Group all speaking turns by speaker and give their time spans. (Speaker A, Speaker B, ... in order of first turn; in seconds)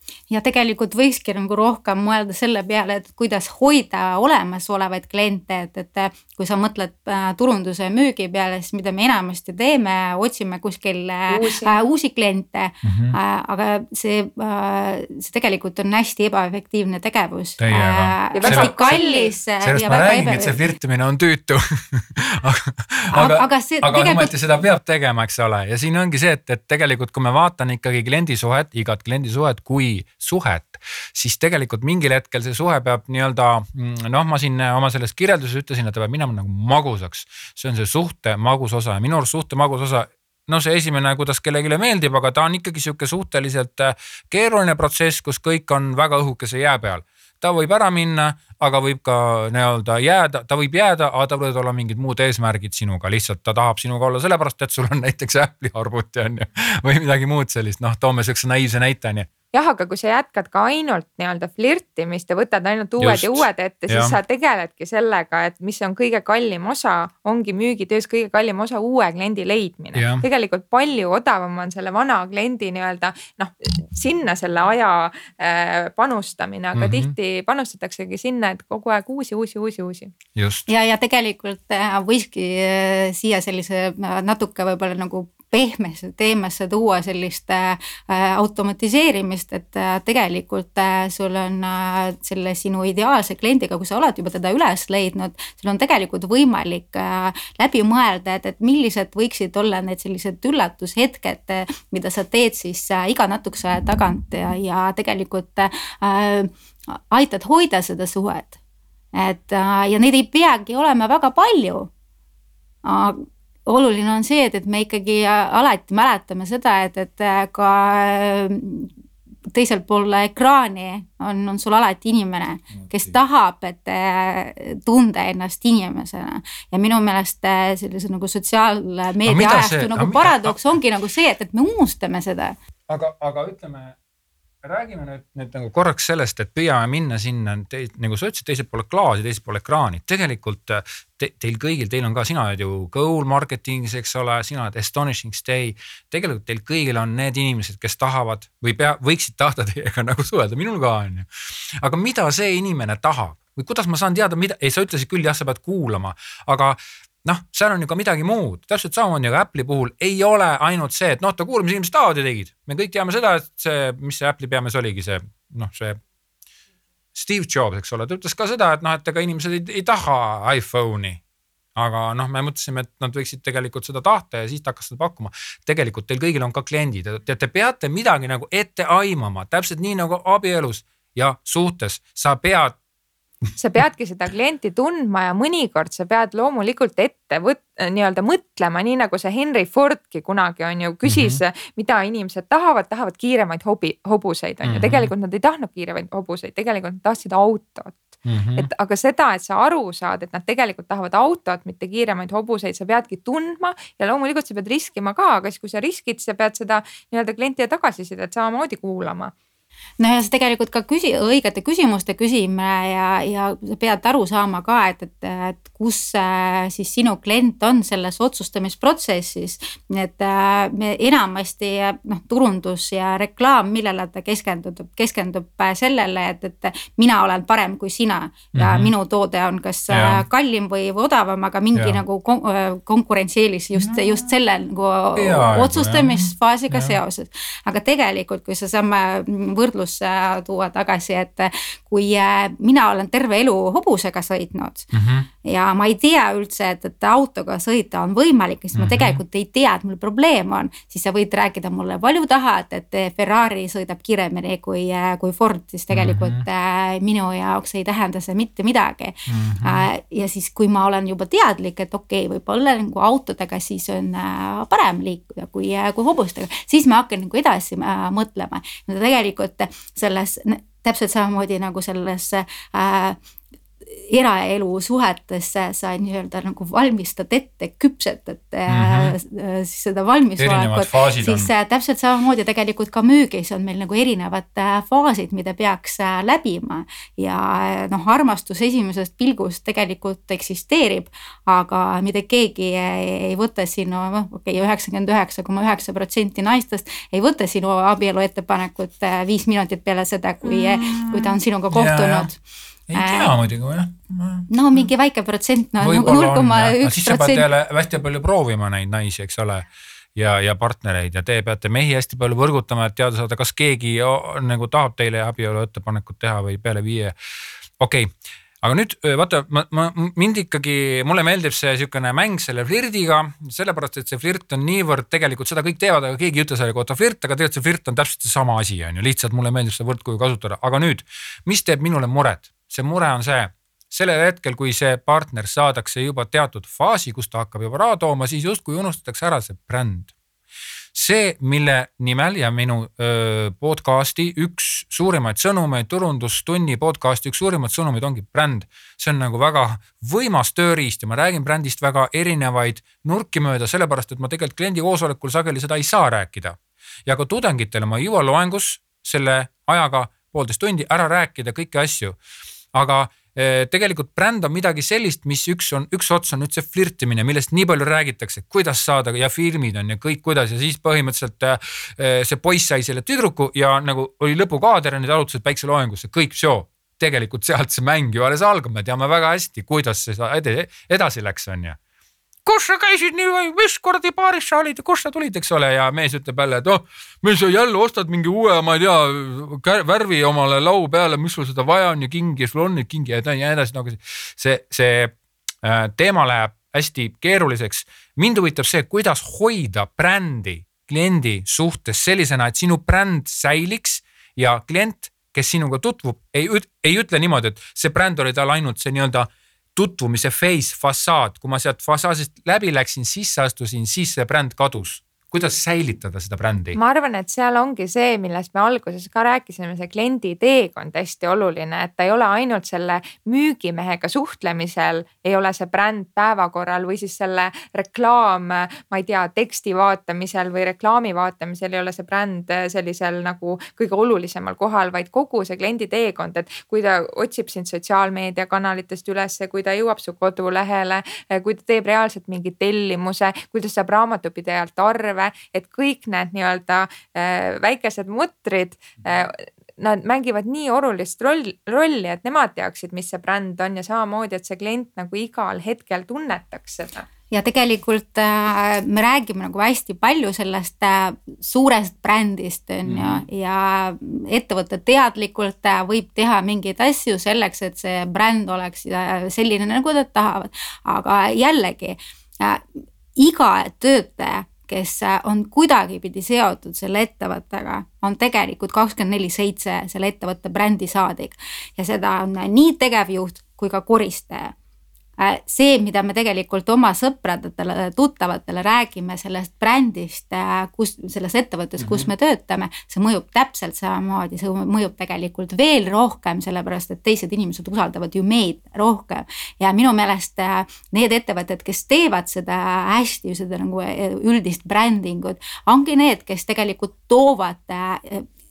Speaker A: 0.3-20.6, 23.1-24.3, 80.7-108.5, 109.1-111.9, 112.8-118.9, 119.5-132.6, 210.0-244.9, 245.4-273.2, 273.9-302.4, 302.9-303.3, 304.5-307.5, 457.3-472.6, 473.1-484.5, 485.2-508.3
Speaker B: 11.3-11.7, 18.3-19.3, 59.5-80.1, 183.6-209.3, 416.8-457.1
Speaker C: 12.8-13.2, 17.6-19.0, 19.6-59.3, 63.0-64.2, 69.9-70.2, 76.7-77.1, 80.3-80.7, 122.8-123.1, 129.2-130.6, 132.9-133.9, 134.6-166.0, 167.1-171.2, 171.7-182.8, 191.0-191.4, 194.6-195.1, 198.2-198.7, 228.5-228.9, 229.9-230.2, 231.7-232.0, 233.8-234.3, 235.2-237.0, 244.9-245.3, 248.7-249.2, 255.9-256.4, 259.3-259.9, 278.7-279.1, 280.4-281.5, 300.4-302.3, 302.9-304.9, 305.8-317.1, 317.8-340.1, 340.9-362.2, 362.7-381.8, 382.4-416.8, 462.9-463.2, 491.8-492.1